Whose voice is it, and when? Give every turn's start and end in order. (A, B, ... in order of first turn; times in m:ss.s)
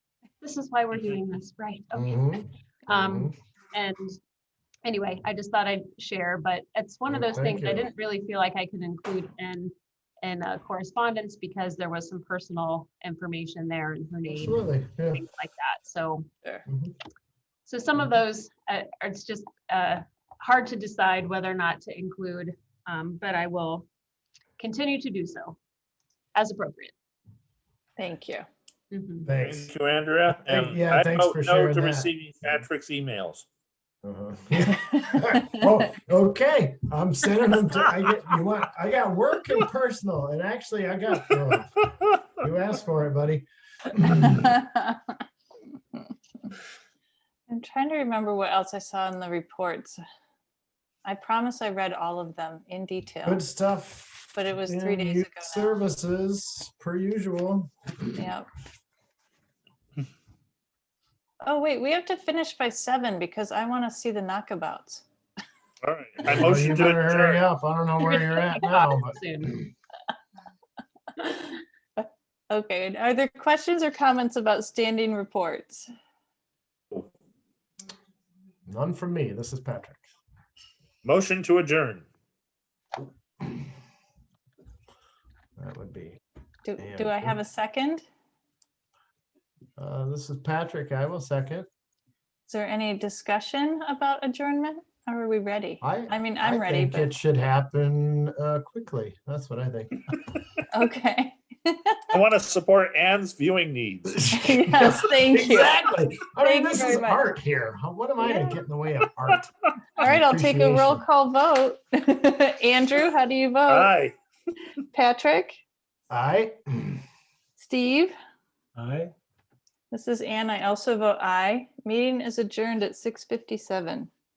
0:00.4-0:04.2 A
0:01.9-0:03.3 B
0:04.8-0:14.6 A
0:07.1-0:07.9 B
0:14.3-0:15.2 B
0:15.1-0:16.3 A
0:16.7-0:16.9 B
0:17.6-0:23.8 A
0:24.6-0:25.6 A
0:26.3-0:26.9 A
0:28.0-0:28.4 C
0:28.9-0:29.3 A
0:29.2-0:29.7 B
0:29.4-0:33.4 D
0:30.3-0:32.1 B
0:34.0-0:41.8 B
0:42.4-0:44.2 B
0:44.1-0:45.2 C
0:47.5-0:50.0 C
0:51.0-0:53.4 C
0:53.2-0:58.1 B
0:54.3-0:55.7 C
0:58.2-0:58.5 C
1:01.4-1:05.0 C
1:05.8-1:07.4 D
1:06.2-1:09.2 B
1:08.0-1:09.6 A
1:11.2-1:15.8 C
1:18.6-1:20.0 B
1:21.0-1:22.0 D
1:25.6-1:26.2 B
1:26.6-1:28.0 C
1:26.8-1:27.4 B
1:29.8-1:31.7 B
1:32.5-1:37.1 C
1:35.8-1:40.2 B
1:40.7-1:42.1 C
1:42.1-1:44.3 D
1:44.1-1:51.0 B
1:44.3-1:45.9 C
1:46.4-1:47.3 C
1:48.2-1:48.6 C
1:50.0-1:53.9 C
1:53.7-1:54.1 D
1:54.9-1:55.6 C
1:56.1-1:57.0 B
1:57.6-1:58.1 C
1:58.8-1:59.1 B
1:59.9-2:04.1 C